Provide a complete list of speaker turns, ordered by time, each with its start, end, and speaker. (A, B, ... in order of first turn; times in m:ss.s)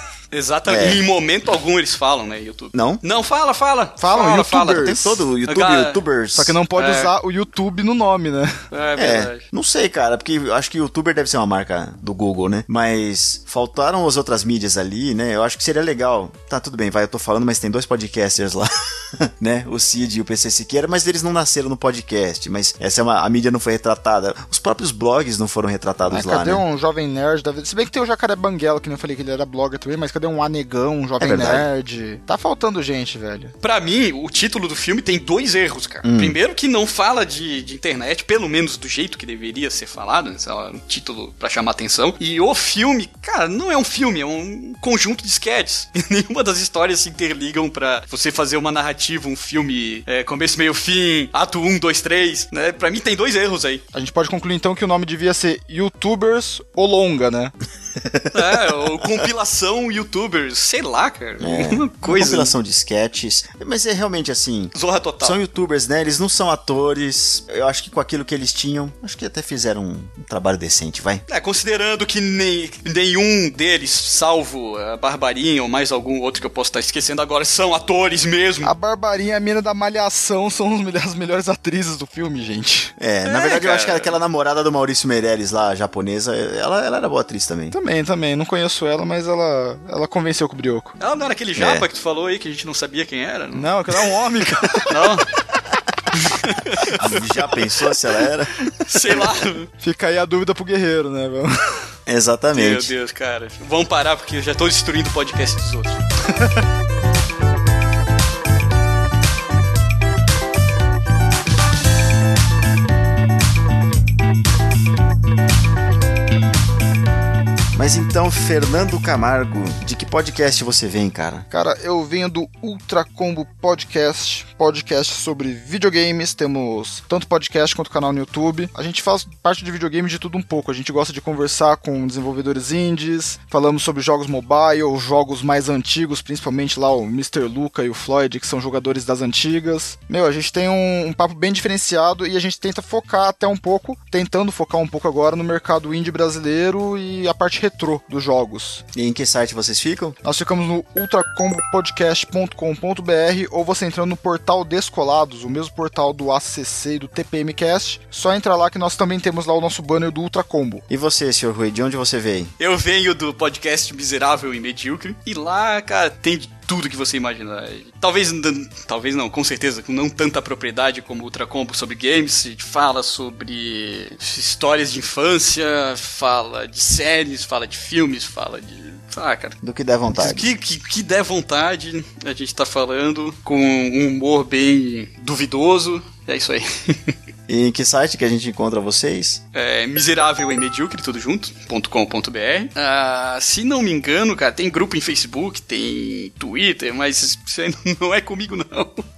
0:00.3-0:06.0 A
0:00.7-0:01.0 B
0:02.7-0:03.0 B
0:04.0-0:05.2 C
0:04.7-0:06.6 B
0:06.4-0:08.6 C
0:06.8-0:07.1 A
0:08.7-0:09.4 A
0:09.0-0:26.6 B
0:26.1-0:33.5 C
0:31.2-0:31.7 B
0:33.6-0:53.8 A
0:36.0-0:36.4 B
0:53.9-0:57.5 C
0:58.0-0:59.2 B
0:58.3-1:02.6 A
1:01.4-1:11.2 B
1:04.8-1:05.4 A
1:11.3-1:18.7 A
1:18.6-1:22.9 C
1:23.0-1:27.8 B
1:23.3-1:24.2 A
1:27.7-1:31.0 C
1:31.0-1:33.7 A
1:31.6-1:31.9 B
1:33.6-1:35.0 C
1:34.8-1:35.3 A
1:36.3-1:37.1 A
1:37.0-1:38.5 B
1:38.8-1:39.7 A
1:39.8-1:41.5 C
1:42.1-1:42.9 B
1:42.5-1:46.0 A
1:57.7-2:01.4 B
2:01.5-2:28.8 C
2:28.9-2:30.2 B
2:30.2-2:40.8 C
2:40.9-2:42.5 B
2:42.6-2:59.6 A
2:59.6-3:00.5 B
3:00.2-3:07.1 A
3:07.5-3:09.4 B
3:09.5-3:19.0 A